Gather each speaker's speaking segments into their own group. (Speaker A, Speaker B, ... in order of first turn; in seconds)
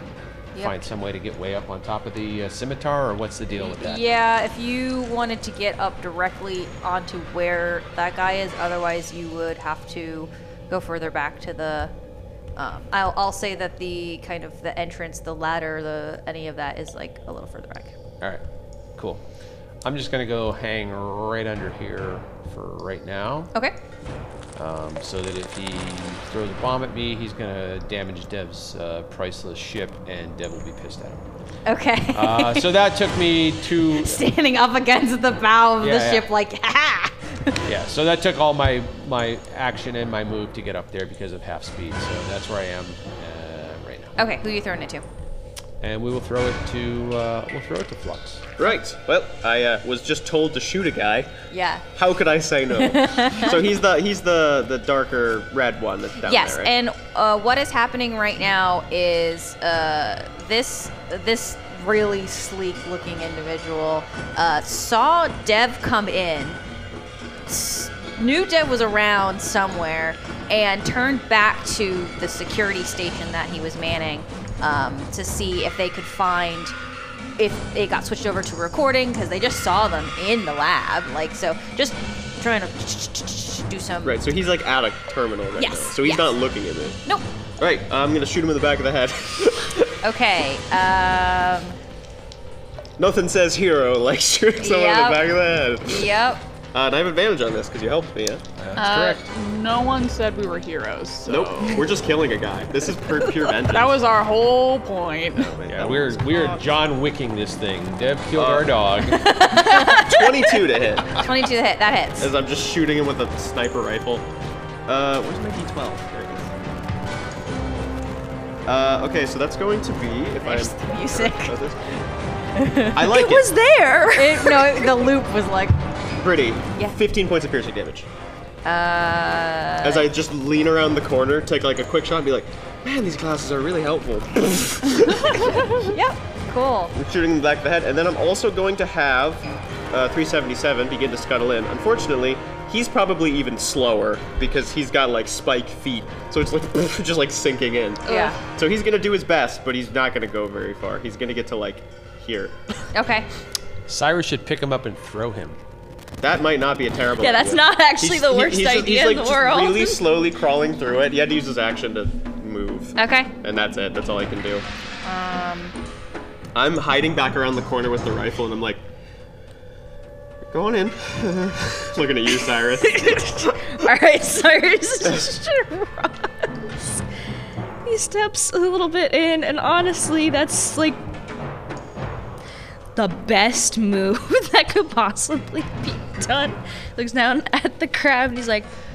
Speaker A: 0.6-0.9, 3.5-11.9, 12.6-17.9, 31.7-32.7, 33.8-37.7, 44.2-45.0, 51.5-51.9, 52.7-53.6, 56.2-66.6, 67.5-76.8, 77.4-84.2, 85.6-86.4, 90.0-91.8, 94.6-95.3, 95.8-96.4, 109.0-112.3, 120.4-121.6, 122.5-123.0, 124.2-125.8, 128.7-130.1, 135.8-136.9, 148.1-148.4, 152.9-153.3, 163.0-163.3, 165.0-165.8
Speaker B: 0.6-4.0, 19.0-19.2, 19.8-23.5, 24.6-31.2, 32.1-34.2, 35.8-36.3, 37.6-44.2, 45.8-48.5, 98.6-99.3, 105.7-109.3, 153.9-155.6
Speaker C: 48.6-51.4, 52.0-56.7, 84.0-87.0, 87.6-90.0, 93.0-96.1, 96.7-98.5, 101.2-104.0, 105.4-106.7, 108.4-108.7, 109.6-111.2, 112.2-114.3, 114.9-116.5, 118.7-122.0, 122.9-123.5, 126.2-128.1, 129.8-135.9, 136.9-152.6, 156.2-164.7, 166.5-168.8, 170.5-173.5
Speaker D: 98.8-101.9, 103.6-105.6
Speaker E: 123.0-125.1, 157.2-160.0, 172.5-176.9, 177.8-181.0, 182.9-188.7